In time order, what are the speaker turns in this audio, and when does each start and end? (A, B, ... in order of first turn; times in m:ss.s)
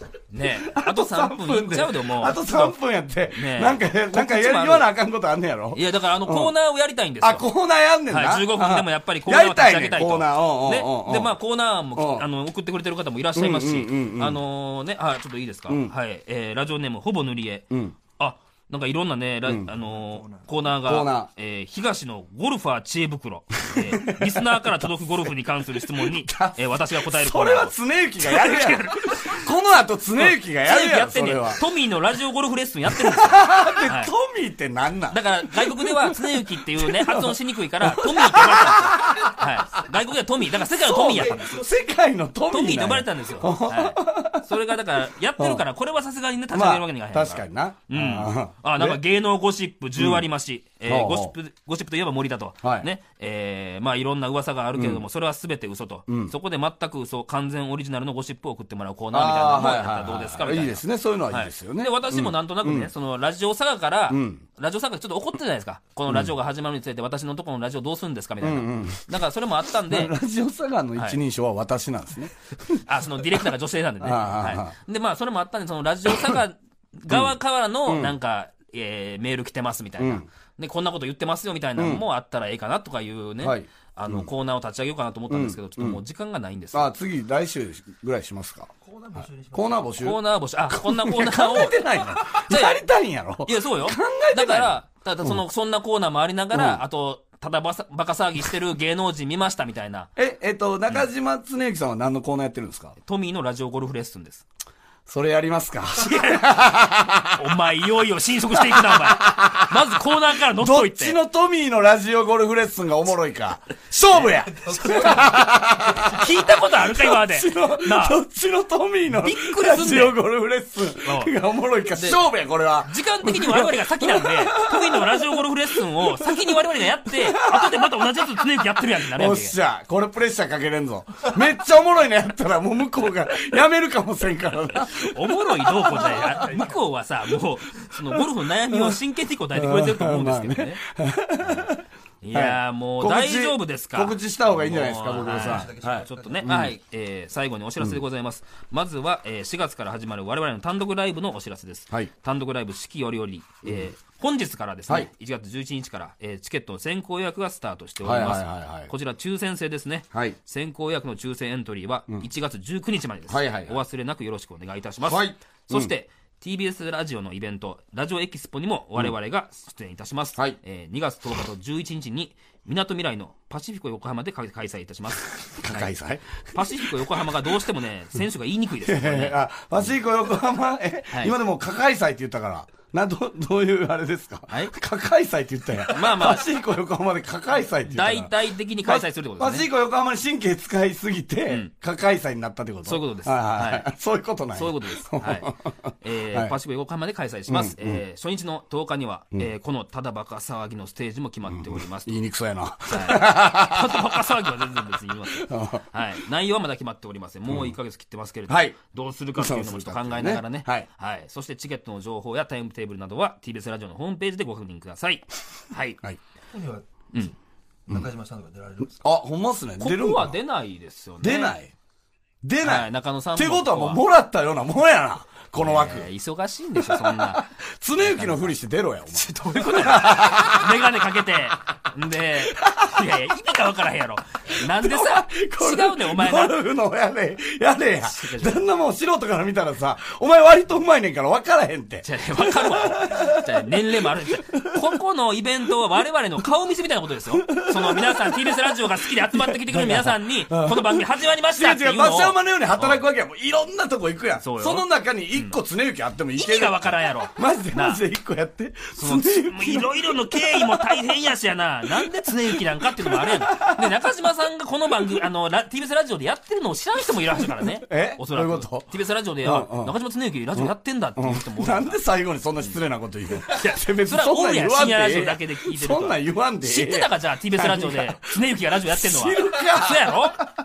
0:00.3-0:02.8 A
0:00.6-0:06.5 B
0:03.3-0:04.9 A
0:05.7-0:07.5 A
0:07.2-0:11.4 B
0:08.1-0:29.4 A
0:12.0-0:12.3 B
0:13.3-0:14.4 B
0:15.7-0:15.9 B
0:17.7-0:18.0 B
0:19.7-0:20.7 C
0:20.8-0:21.3 B
0:23.7-0:25.2 B
0:25.9-0:31.6 B
0:30.2-0:34.1 A
0:32.9-0:39.4 B
0:35.1-0:41.7 A
0:40.6-0:44.5 B
0:42.5-1:10.1 A
0:45.4-0:45.6 B
0:46.5-0:49.0 B
0:50.0-0:50.3 B
0:50.8-0:51.3 B
0:52.6-0:52.9 B
0:54.8-0:55.0 B
0:56.1-0:56.3 B
0:59.1-1:02.9 B
1:04.1-1:04.4 B
1:08.4-1:09.2 B
1:09.9-1:12.8 B
1:12.7-1:26.9 A
1:14.0-1:14.7 B
1:17.1-1:17.4 B
1:17.9-1:18.2 B
1:20.0-1:20.3 B
1:21.8-1:22.0 B
1:23.4-1:24.3 B
1:25.3-1:26.0 B
1:26.7-1:28.7 B
1:28.8-1:30.0 C
1:29.5-1:35.4 B
1:30.0-1:32.9 A
1:33.5-1:40.1 A
1:36.5-1:36.8 B
1:40.2-1:43.0 B
1:43.0-1:44.5 A
1:45.1-1:47.5 B
1:46.0-1:46.5 A
1:47.4-1:51.2 A
1:48.5-1:49.8 B
1:50.6-2:08.4 B
1:54.1-1:55.2 A
1:54.7-1:55.4 C
1:56.0-1:58.2 A
1:59.2-2:00.2 A
2:01.0-2:01.3 A
2:01.9-2:02.2 A
2:02.8-2:09.6 A
2:09.0-2:16.6 B
2:14.8-2:20.8 A
2:16.1-2:16.8 C
2:18.7-2:19.0 B
2:19.5-2:26.7 B
2:21.4-2:55.9 A
2:25.1-2:26.5 C
2:33.6-2:33.9 B
2:38.0-2:38.9 B
2:43.3-2:43.8 B
2:45.1-2:45.9 B
2:55.4-2:57.3 B
2:56.5-2:59.4 A
2:58.8-3:08.3 B
3:05.9-3:06.5 A
3:07.9-3:09.7 A
3:08.8-3:16.5 B
3:12.9-3:13.9 A
3:14.5-3:22.2 A
3:17.5-3:18.0 B
3:21.5-3:24.2 B
3:22.9-3:36.0 A
3:25.3-3:25.8 B
3:27.5-3:27.8 B
3:28.5-3:28.8 B
3:29.4-3:30.9 B
3:36.5-3:36.9 C
3:37.9-3:39.0 C
3:39.0-3:40.4 B
3:39.8-3:41.6 A
3:41.2-3:41.7 B
3:42.4-3:46.1 B
3:42.6-3:44.0 A
3:45.6-3:48.6 A
3:46.8-3:50.9 B
3:49.1-3:56.6 A
3:52.4-3:53.1 B
3:54.6-4:05.0 B
3:58.0-3:58.7 A
4:02.0-4:13.0 A
4:07.3-4:21.0 B
4:14.4-4:15.6 A
4:16.4-4:18.0 A
4:19.0-4:32.0 A
4:21.9-4:23.9 B
4:27.6-4:28.9 B
4:29.4-4:29.9 B
4:30.6-4:40.5 B
4:33.4-4:40.4 A